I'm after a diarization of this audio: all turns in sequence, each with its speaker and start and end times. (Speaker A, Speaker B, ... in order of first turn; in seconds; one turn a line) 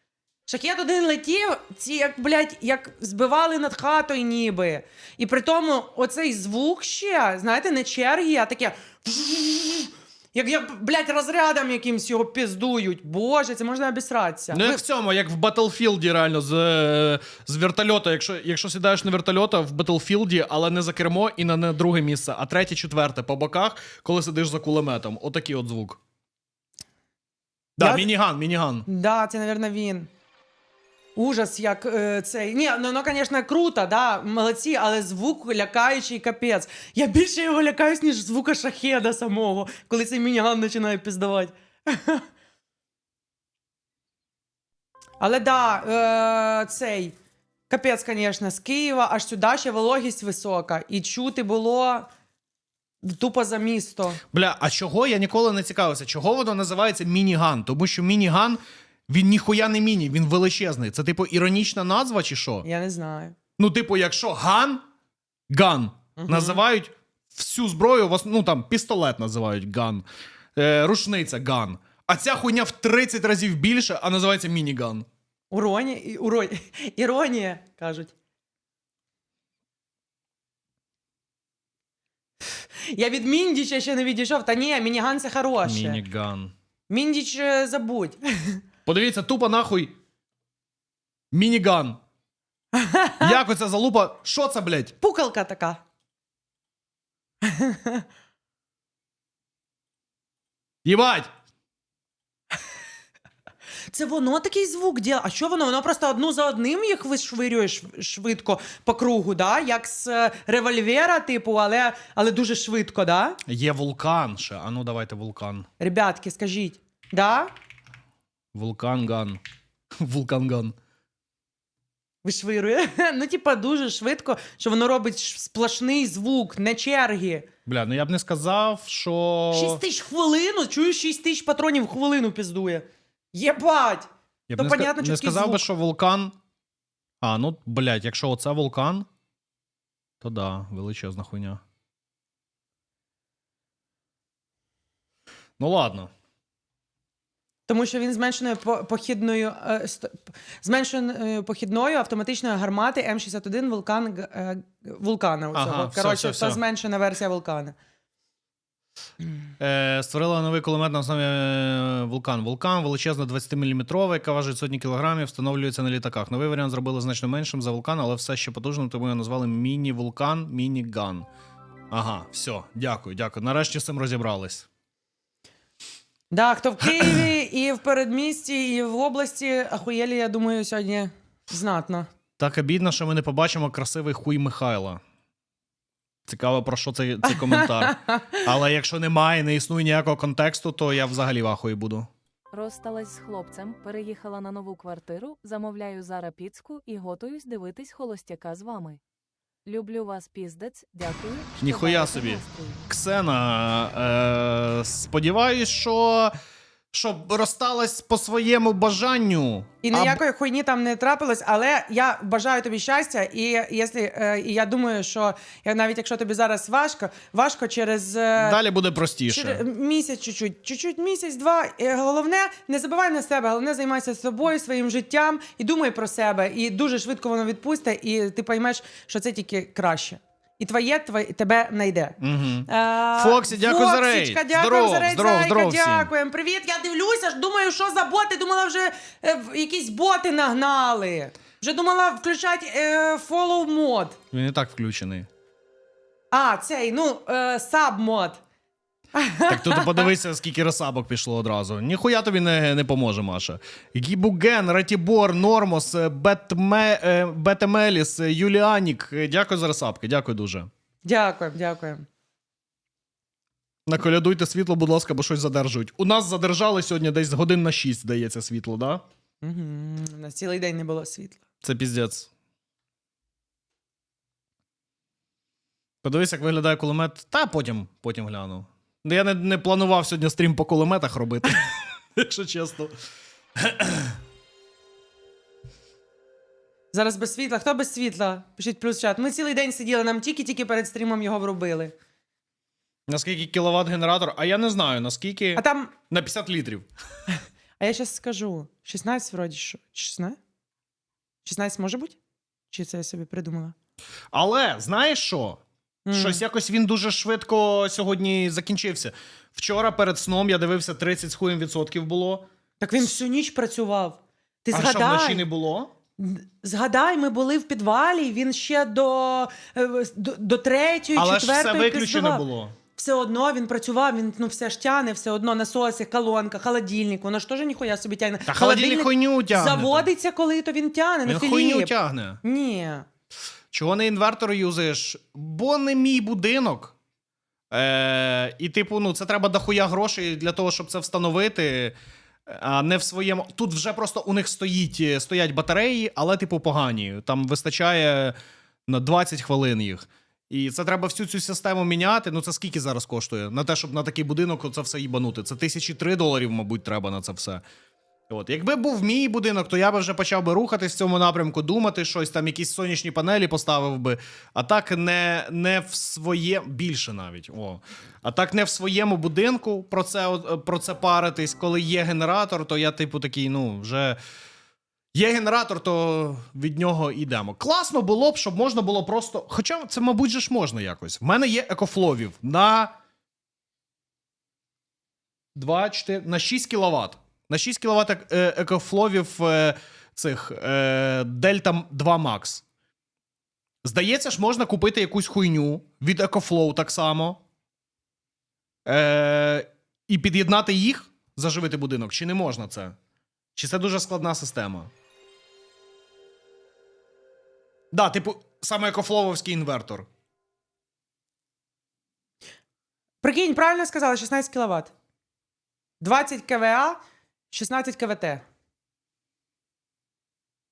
Speaker A: 0.5-14.8
Speaker B: 14.5-26.0
Speaker B: 27.8-28.9
Speaker A: 27.8-28.1
Speaker A: 28.9-30.1
Speaker A: 31.2-42.3
Speaker A: 45.2-47.1
Speaker A: 47.7-52.1
Speaker A: 53.0-54.2
Speaker B: 54.3-62.7
Speaker A: 62.6-63.4
Speaker B: 63.6-64.8
Speaker B: 65.5-70.0
Speaker A: 66.2-66.6
Speaker B: 70.6-75.1
Speaker A: 75.5-78.1
Speaker A: 82.9-86.0
Speaker B: 85.6-86.5
Speaker A: 86.9-88.6
Speaker B: 88.9-90.0
Speaker B: 91.3-92.0
Speaker A: 92.7-93.4
Speaker B: 93.2-94.9
Speaker A: 95.0-95.8
Speaker A: 97.4-98.0
Speaker B: 100.8-101.3
Speaker A: 103.9-113.4
Speaker B: 113.5-115.7
Speaker A: 115.8-117.5
Speaker B: 118.5-119.4
Speaker B: 120.0-120.8
Speaker A: 122.2-127.5
Speaker B: 127.7-129.8
Speaker A: 129.5-135.7
Speaker B: 134.5-136.4
Speaker B: 137.2-139.1
Speaker B: 140.2-141.6
Speaker B: 145.6-146.1
Speaker A: 147.7-157.8
Speaker B: 155.5-156.6
Speaker B: 159.6-171.3
Speaker B: 171.9-174.7
Speaker A: 176.3-182.1
Speaker B: 176.9-177.2
Speaker B: 182.4-185.0
Speaker B: 186.3-192.1
Speaker A: 187.4-187.9
Speaker C: 192.5-199.0
Speaker C: 199.7-202.8
Speaker B: 201.6-206.3
Speaker B: 206.9-210.2
Speaker A: 209.8-218.6
Speaker B: 218.4-219.6
Speaker A: 219.3-244.2
Speaker B: 232.2-236.1
Speaker B: 244.3-245.3
Speaker A: 246.3-248.4
Speaker A: 249.2-250.1
Speaker B: 249.5-260.7
Speaker A: 261.0-262.1
Speaker B: 263.9-269.0
Speaker A: 269.4-271.4
Speaker B: 271.6-272.3
Speaker B: 276.0-282.9
Speaker B: 283.6-284.2
Speaker A: 286.9-291.9
Speaker B: 293.1-296.9
Speaker A: 295.6-295.9
Speaker A: 297.8-300.4
Speaker A: 301.4-302.2
Speaker A: 302.7-303.8
Speaker B: 304.3-305.6
Speaker A: 306.1-306.4
Speaker B: 306.1-312.5
Speaker A: 312.8-315.5
Speaker B: 314.7-315.9
Speaker A: 316.2-333.1
Speaker B: 321.1-322.8
Speaker B: 328.5-330.1
Speaker B: 331.3-332.4
Speaker B: 333.7-336.9
Speaker B: 337.7-341.9
Speaker B: 342.5-348.4
Speaker B: 348.9-357.6
Speaker B: 358.3-374.2
Speaker B: 375.1-382.9
Speaker B: 385.6-392.6
Speaker B: 393.8-397.4
Speaker B: 398.9-403.0
Speaker B: 403.6-404.9
Speaker B: 407.9-410.1
Speaker A: 413.2-414.9
Speaker A: 416.0-417.0
Speaker A: 417.5-418.4